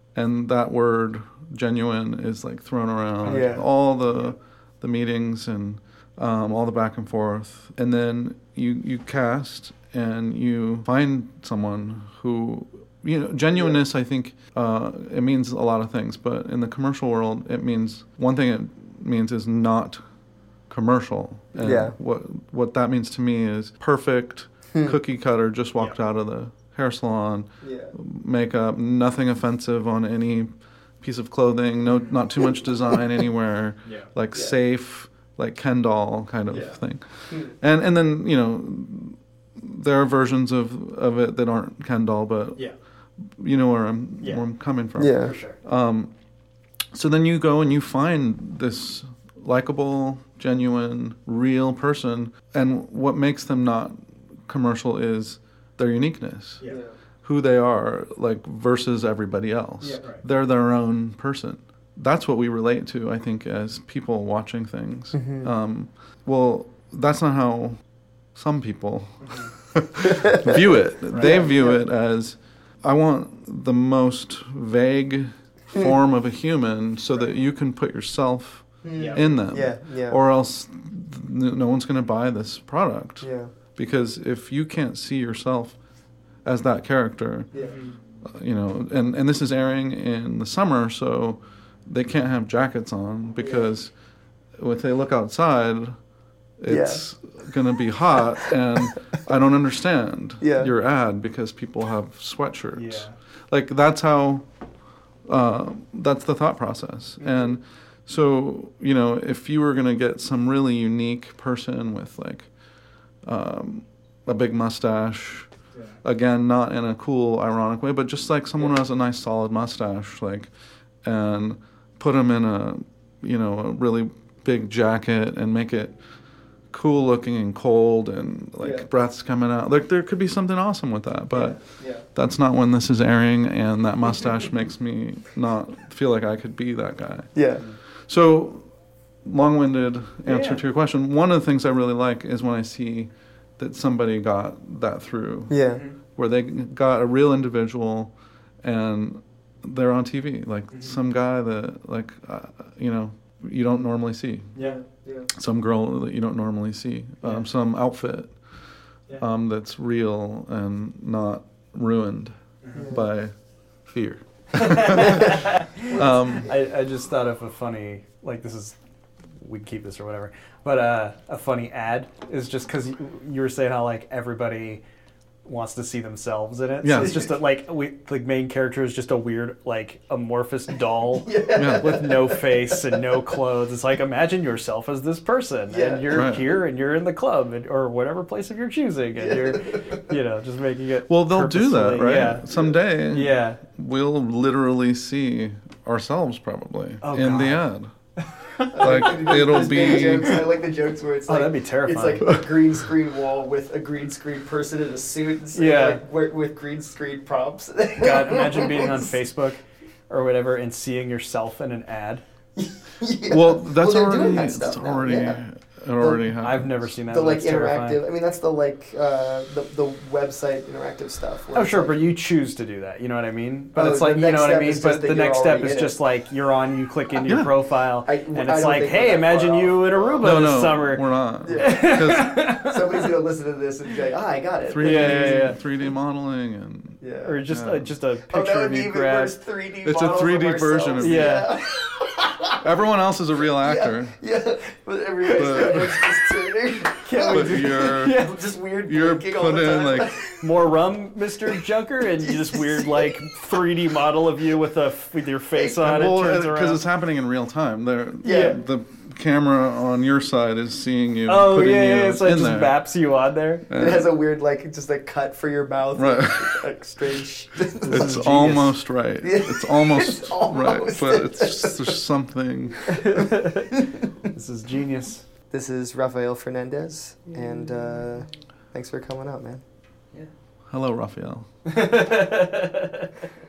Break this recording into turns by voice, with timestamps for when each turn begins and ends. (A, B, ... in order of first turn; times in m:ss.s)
0:00.1-0:20.0 A
0:03.2-0:03.7 B
0:20.7-0:42.6 A
0:21.6-0:22.0 B
0:24.7-0:25.0 B
0:27.6-0:27.9 B
0:36.5-0:36.8 C
0:43.2-0:46.1 A
0:45.0-0:45.4 B
0:45.2-0:45.6 C
0:46.9-0:56.6 A
0:56.6-0:56.9 B
0:57.2-1:07.8 A
0:59.8-1:00.2 C
1:05.1-1:05.5 B
1:08.3-1:25.8 A
1:10.2-1:11.9 B
1:11.1-1:11.3 C
1:18.8-1:20.2 B
1:19.0-1:19.2 C
1:23.2-1:23.5 B
1:26.4-1:27.5 A
1:27.5-1:27.8 B
1:27.6-1:27.9 C
1:28.2-1:33.9 A
1:33.4-1:33.7 B
1:34.6-1:36.0 A
1:36.6-1:44.4 A
1:36.7-1:37.0 B
1:40.4-1:40.7 B
1:42.7-1:43.2 C
1:45.3-1:52.5 A
1:47.2-1:47.5 B
1:53.2-1:55.5 A
1:56.0-2:00.5 A
2:01.0-2:05.9 A
2:06.7-2:11.6 A
2:08.6-2:08.9 B
2:11.3-2:12.0 B
2:12.1-2:17.3 A
2:17.3-2:17.6 B
2:18.0-2:18.7 A
2:19.2-2:25.6 A
2:20.2-2:20.6 C
2:25.5-2:25.8 B
2:26.1-2:34.5 A
2:34.5-2:34.8 C
2:35.0-2:35.3 B
2:35.3-2:38.3 A
2:37.2-2:37.5 C
2:39.2-2:43.3 A
2:42.6-2:42.9 C
2:42.7-2:43.0 B
2:43.9-2:46.5 A
2:44.5-2:48.8 C
2:49.4-2:54.8 C
2:55.4-3:13.6 C
2:56.8-2:57.3 A
3:01.1-3:03.0 B
3:01.6-3:02.0 A
3:05.7-3:06.4 B
3:06.1-3:06.5 A
3:09.2-3:10.0 B
3:11.1-3:17.9 A
3:17.0-3:17.6 C
3:18.4-3:20.4 C
3:18.7-3:29.2 B
3:18.8-3:20.4 A
3:21.3-3:22.4 C
3:25.5-3:26.0 C
3:28.0-3:32.2 C
3:32.6-3:35.4 B
3:33.3-3:36.9 A
3:36.0-3:36.3 B
3:36.4-3:38.0 C
3:37.1-3:42.0 B
3:41.5-3:53.1 C
3:43.7-3:46.0 B
3:47.3-3:47.5 A
3:48.0-3:50.5 B
3:50.2-3:52.4 A
3:51.4-3:55.6 B
3:54.6-3:57.9 A
3:54.8-3:55.6 C
3:57.0-3:57.5 B
3:57.2-3:59.4 C
3:58.3-4:02.6 B
3:59.8-4:01.4 A
4:01.0-4:01.5 C
4:02.6-4:04.2 A
4:03.6-4:10.6 B
4:05.3-4:05.9 A
4:07.0-4:08.4 C
4:07.3-4:08.2 A
4:08.8-4:10.2 A
4:10.4-4:16.8 C
4:12.2-4:13.3 B
4:15.5-4:15.8 B
4:15.8-4:22.8 A
4:18.2-4:18.6 B
4:21.2-4:23.6 C
4:23.7-4:24.1 A
4:23.8-4:28.2 B
4:25.9-4:26.6 A
4:27.8-4:28.8 C
4:27.9-4:33.0 A
4:29.2-4:32.0 B
4:33.0-4:35.2 C
4:35.5-4:39.6 B
4:40.7-4:41.5 A
4:41.6-4:43.3 C